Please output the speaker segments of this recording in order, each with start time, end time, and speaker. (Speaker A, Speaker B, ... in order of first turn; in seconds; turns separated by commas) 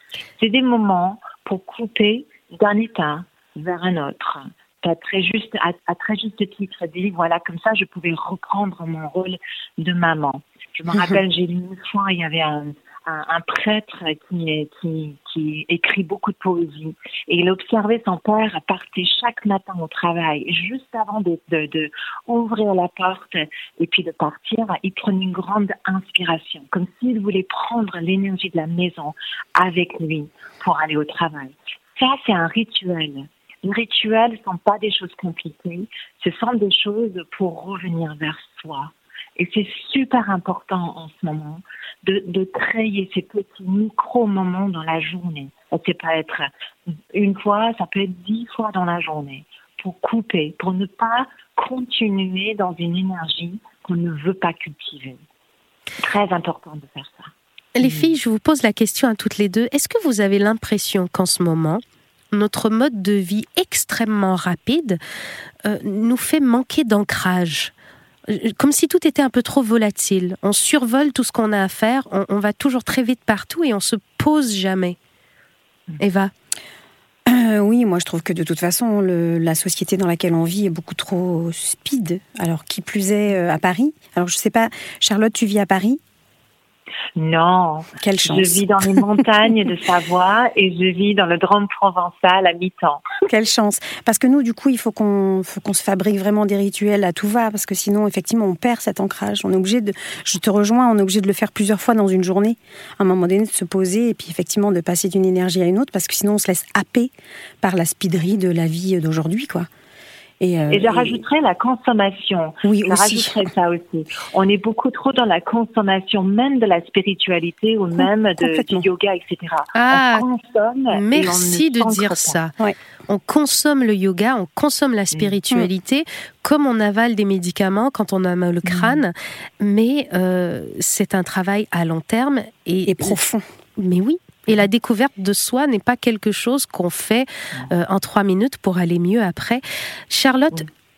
Speaker A: 0.4-46.5, Speaker A: 47.1-55.2, Speaker A: 56.0-57.3, Speaker B: 57.7-61.8, Speaker A: 57.8-58.1, Speaker B: 62.3-65.0, Speaker B: 65.6-67.7, Speaker B: 68.3-75.0, Speaker B: 76.0-76.3, Speaker C: 77.3-86.0, Speaker A: 87.2-93.0, Speaker C: 88.0-89.0, Speaker C: 93.3-109.7, Speaker C: 110.4-111.2, Speaker A: 110.7-122.4, Speaker C: 112.6-113.5, Speaker C: 118.0-118.9, Speaker B: 119.7-120.2, Speaker B: 120.9-122.5, Speaker B: 123.1-133.2, Speaker A: 128.7-129.0, Speaker C: 132.9-133.4, Speaker B: 133.8-140.7